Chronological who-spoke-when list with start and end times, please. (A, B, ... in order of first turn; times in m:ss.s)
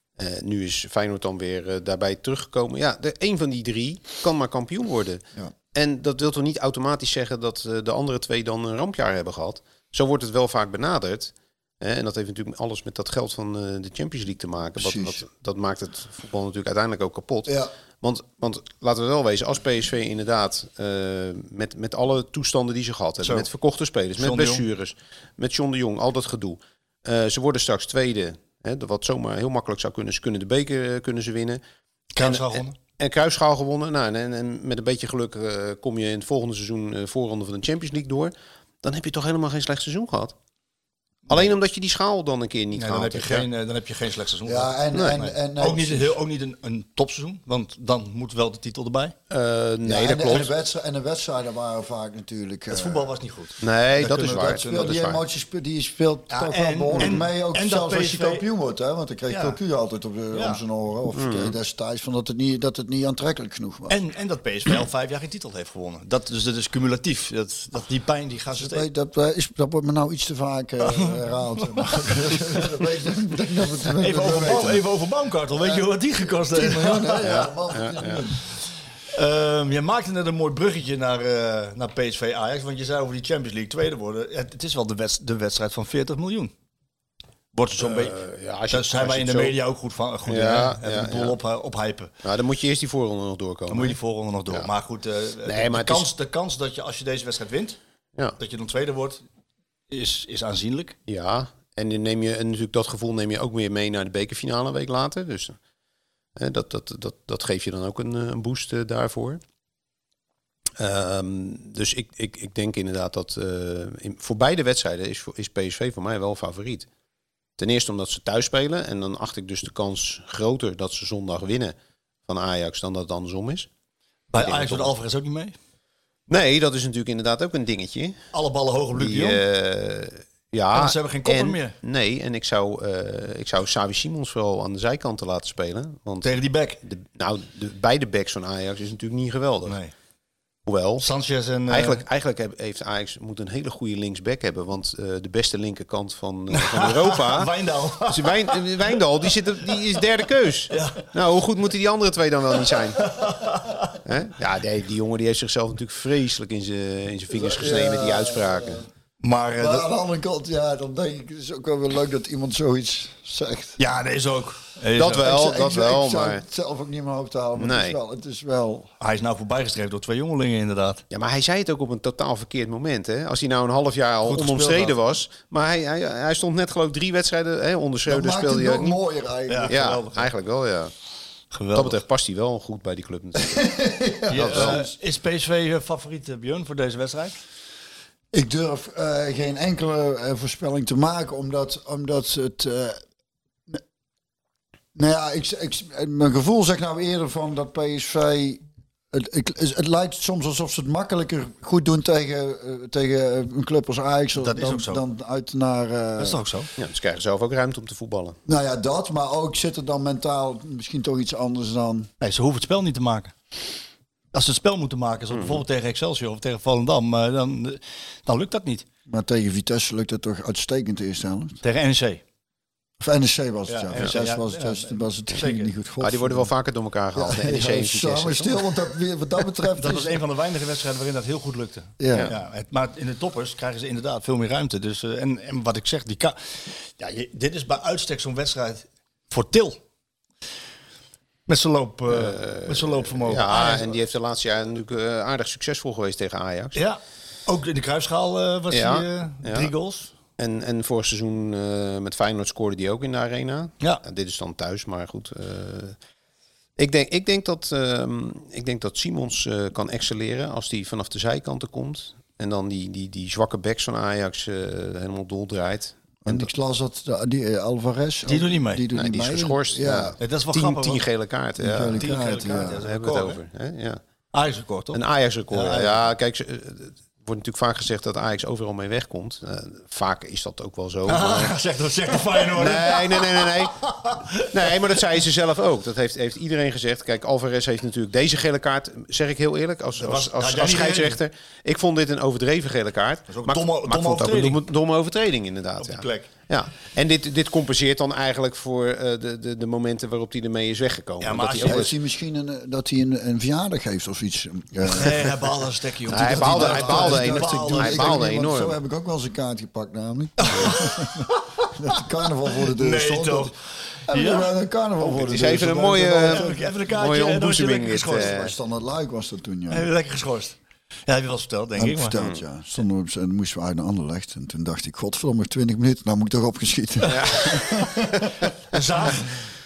0:00.2-0:05.2 A
0:05.7-0:31.6 A
0:14.8-0:15.2 B
0:17.5-0:17.7 B
0:23.2-0:23.5 C
0:24.2-0:24.6 C
0:32.2-0:32.8 C
0:32.2-0:40.4 A
0:41.3-0:43.5 A
0:42.8-0:49.2 C
0:44.5-0:46.2 B
0:49.3-0:50.5 A
0:49.8-0:53.1 B
0:52.7-0:55.0 C
0:53.6-0:55.2 A
0:54.3-1:04.0 B
0:56.3-0:58.4 C
0:59.3-0:59.6 C
1:00.3-1:00.6 C
1:01.1-1:01.5 A
1:03.9-1:08.9 C
1:08.5-1:14.8 B
1:10.8-1:12.3 C
1:14.0-1:17.5 C
1:16.4-1:18.4 B
1:17.3-1:18.2 A
1:19.1-1:26.5 C
1:27.5-1:28.2 C
1:27.8-1:29.6 A
1:28.7-1:32.1 C
1:30.3-1:31.4 A
1:32.2-1:34.0 A
1:33.7-1:37.8 C
1:35.4-1:36.1 A
1:38.4-1:39.2 C
1:39.9-1:41.0 C
1:41.1-1:45.6 A
1:46.4-1:49.4 A
1:50.8-1:56.9 A
1:57.6-2:01.8 A
2:02.3-2:03.7 A
2:04.3-2:05.6 C
2:04.4-2:04.9 A
2:06.3-2:08.2 A
2:08.3-2:09.4 C
2:09.0-2:19.8 A
2:10.7-2:11.8 C
2:16.2-2:16.8 C
2:19.7-2:19.9 C
2:20.7-2:21.0 A
2:21.0-2:22.0 C
2:21.7-2:33.3 A
2:26.5-2:29.0 C
2:30.7-2:31.0 C
2:33.0-2:34.0 C
2:34.0-2:38.8 A
2:37.3-2:38.9 B
2:39.2-2:39.9 C
2:39.6-2:43.8 B
2:43.8-2:45.2 C
2:45.0-2:46.4 A
2:45.2-2:48.9 B
2:47.6-2:48.0 A
2:49.0-2:51.0 C
2:51.1-2:59.0 A
2:54.3-2:54.9 C
2:58.1-2:59.8 B
2:59.5-3:00.3 C
2:59.7-3:00.9 A
3:01.5-3:02.0 C
3:01.7-3:03.8 A
3:03.5-3:04.9 B
3:04.3-3:07.4 C
3:04.3-3:04.8 A
3:08.3-3:13.0 B
3:15.0-3:18.6 B
3:19.1-3:26.4 B
3:24.4-3:25.0 C
3:26.2-3:26.7 C
3:26.8-3:28.4 A
3:28.5-3:32.1 B
3:32.2-3:33.4 C
3:34.3-3:38.8 C
3:35.3-3:35.6 A
3:39.1-3:41.6 B
3:41.6-3:42.2 C
3:43.0-3:46.5 B
3:43.7-3:45.7 C
3:46.0-3:48.8 A
3:47.2-3:50.2 B
3:49.8-3:59.8 C
3:52.0-3:52.3 B
4:01.5-4:04.0 C
4:02.1-4:06.8 A
4:06.8-4:10.1 C
4:08.7-4:09.7 A
4:10.4-4:16.0 A
4:16.8-4:26.5 A
4:26.2-4:30.2 B
4:28.3-4:28.8 C
4:28.9-4:34.0 A
4:30.2-4:31.0 C
4:31.6-4:32.8 B
4:32.0-4:33.4 C
4:34.3-4:36.0 C
4:34.9-4:41.5 A
4:41.1-4:45.0 C
4:42.5-4:43.9 A
4:44.5-5:01.9 A
4:50.0-4:51.2 C
4:53.3-4:54.6 C
4:55.8-4:56.3 C
5:01.2-5:01.9 C
5:01.6-5:05.3 B
5:04.9-5:08.2 C
5:06.1-5:08.8 A
5:06.3-5:11.1 B
5:10.4-5:12.0 C
5:11.8-5:13.6 B
5:12.6-5:14.5 C
5:14.1-5:16.7 B
5:15.2-5:18.5 A
5:16.3-5:18.3 C
5:18.1-5:19.9 B
5:19.7-5:22.2 C
5:21.8-5:28.3 B
5:27.1-5:27.6 A
5:27.3-5:27.8 C
5:28.7-5:29.5 C